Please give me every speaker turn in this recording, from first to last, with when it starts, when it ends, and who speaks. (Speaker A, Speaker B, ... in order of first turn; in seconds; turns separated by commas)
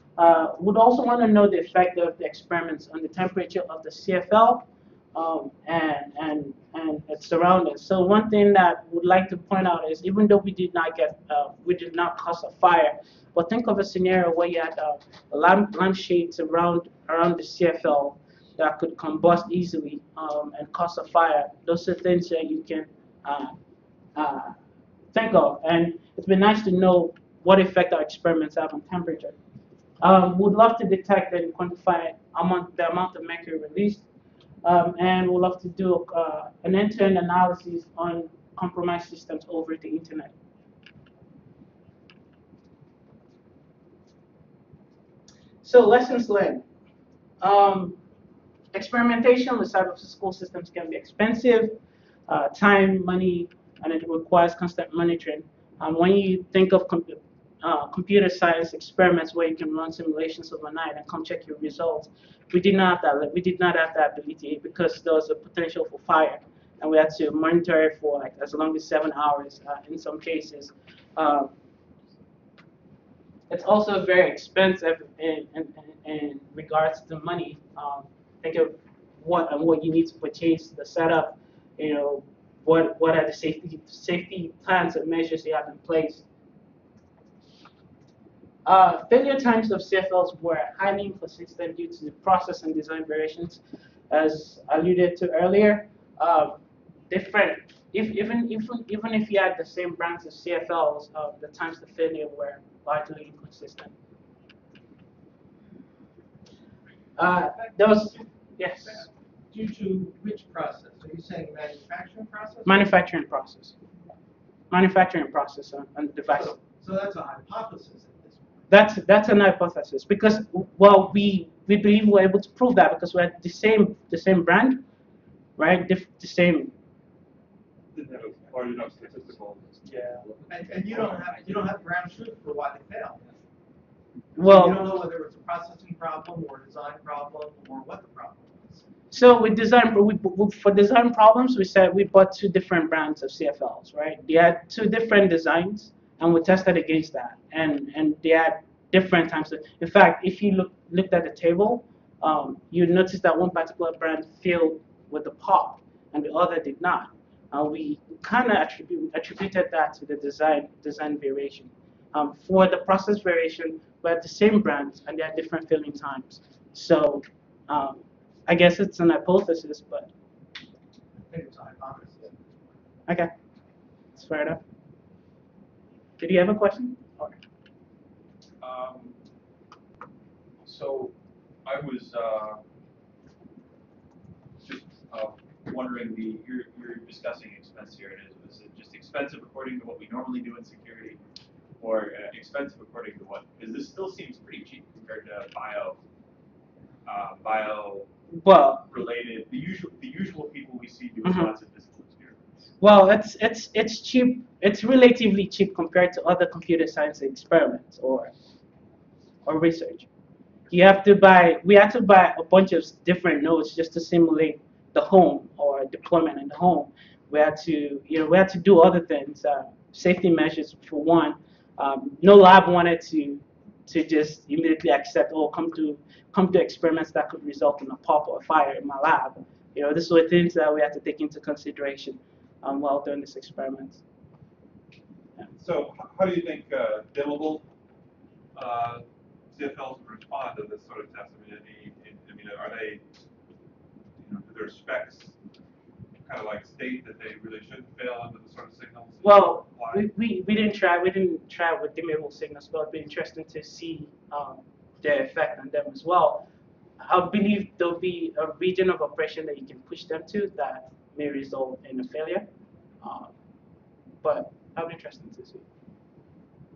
Speaker A: 0.2-23.6, Speaker A: 24.2-24.6, Speaker A: 25.1-29.4, Speaker A: 30.0-34.0, Speaker A: 34.6-40.3, Speaker A: 45.6-46.6, Speaker A: 47.4-48.0, Speaker A: 48.7-51.8, Speaker A: 52.3-71.5, Speaker A: 73.5-86.2, Speaker A: 88.7-96.6, Speaker A: 97.1-103.9, Speaker A: 107.2-109.1, Speaker B: 107.2-108.0, Speaker B: 108.8-112.9, Speaker A: 112.7-113.8, Speaker A: 114.7-116.5, Speaker B: 116.3-118.7, Speaker A: 118.7-124.8, Speaker A: 125.6-126.7, Speaker C: 127.9-130.3, Speaker B: 130.5-133.4, Speaker C: 130.9-131.2, Speaker A: 134.4-134.9, Speaker B: 134.4-138.9, Speaker A: 139.1-170.1, Speaker B: 171.1-172.5, Speaker A: 174.2-174.6, Speaker A: 176.2-177.4, Speaker D: 178.6-179.2, Speaker D: 180.6-181.1, Speaker D: 181.7-182.6, Speaker D: 184.6-191.2, Speaker D: 191.8-196.0, Speaker D: 197.1-198.1, Speaker A: 198.3-198.9, Speaker D: 198.9-202.6, Speaker A: 201.2-201.5, Speaker A: 202.8-208.3, Speaker A: 209.4-210.1, Speaker A: 210.7-234.0, Speaker C: 235.6-237.7, Speaker C: 238.5-243.0, Speaker C: 244.2-245.4, Speaker C: 246.2-250.1, Speaker A: 249.2-256.4, Speaker A: 257.0-262.5, Speaker A: 263.0-263.3, Speaker A: 264.2-265.6